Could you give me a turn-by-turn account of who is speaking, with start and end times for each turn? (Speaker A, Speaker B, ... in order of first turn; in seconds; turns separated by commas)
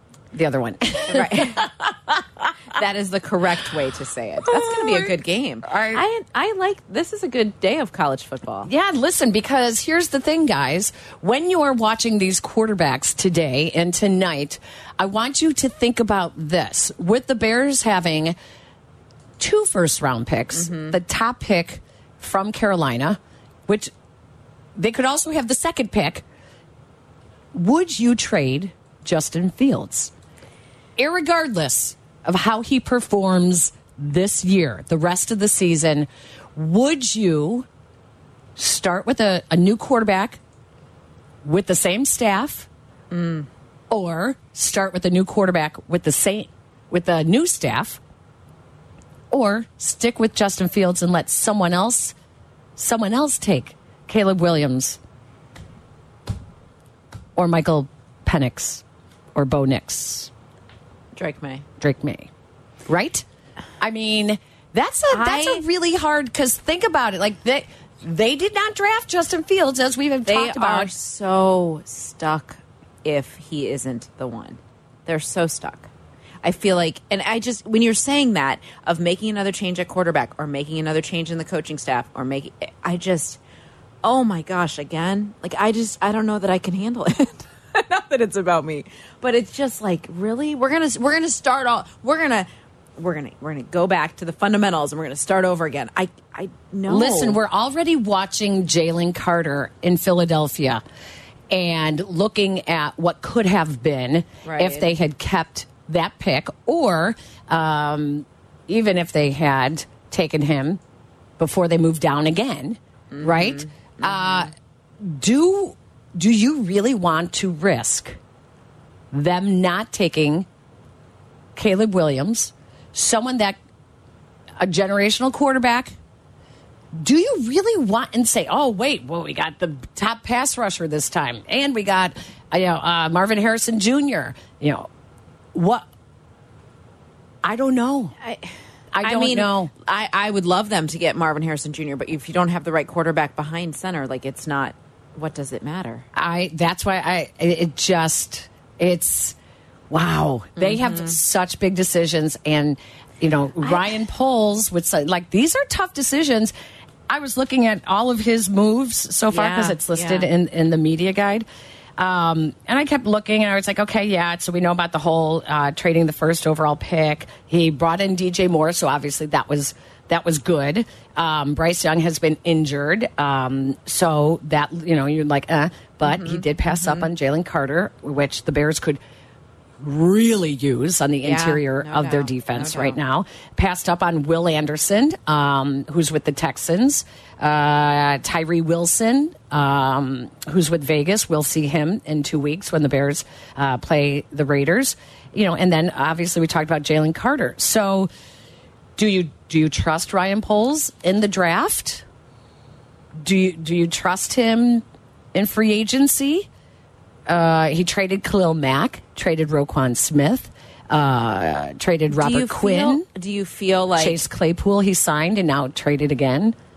Speaker A: 0.3-2.2, Speaker B: 1.1-1.7, Speaker B: 2.7-8.7, Speaker A: 4.4-6.0, Speaker A: 8.6-18.4, Speaker A: 19.4-23.9, Speaker B: 20.5-21.0, Speaker A: 24.8-26.2, Speaker A: 27.5-30.1, Speaker A: 31.0-37.7, Speaker A: 38.5-40.4, Speaker A: 41.4-42.7, Speaker B: 43.1-43.5, Speaker A: 43.9-48.0, Speaker A: 49.3-52.1, Speaker A: 52.8-55.0, Speaker A: 57.4-58.8, Speaker A: 59.3-60.3, Speaker B: 61.1-61.6, Speaker A: 61.8-62.3, Speaker A: 62.9-63.2, Speaker A: 63.8-70.9, Speaker B: 65.1-65.6, Speaker B: 70.2-75.9, Speaker B: 76.4-83.4, Speaker B: 84.0-97.4, Speaker A: 96.9-100.8, Speaker A: 101.5-110.8, Speaker B: 104.4-104.9, Speaker A: 111.4-118.2, Speaker B: 113.1-114.5, Speaker A: 119.1-120.5, Speaker A: 121.5-123.6, Speaker A: 124.6-126.0, Speaker A: 127.0-134.9, Speaker A: 135.5-135.9, Speaker A: 137.4-138.1, Speaker B: 138.2-146.0, Speaker A: 138.9-139.7, Speaker A: 146.1-149.3, Speaker A: 149.9-156.5, Speaker B: 150.6-151.2, Speaker A: 157.1-161.4, Speaker B: 159.3-160.3, Speaker A: 162.0-179.0, Speaker B: 176.0-177.1, Speaker A: 179.8-198.1, Speaker B: 181.2-183.0, Speaker A: 199.0-202.0, Speaker A: 203.2-206.5, Speaker A: 207.3-213.1, Speaker B: 212.1-214.2, Speaker A: 213.9-216.5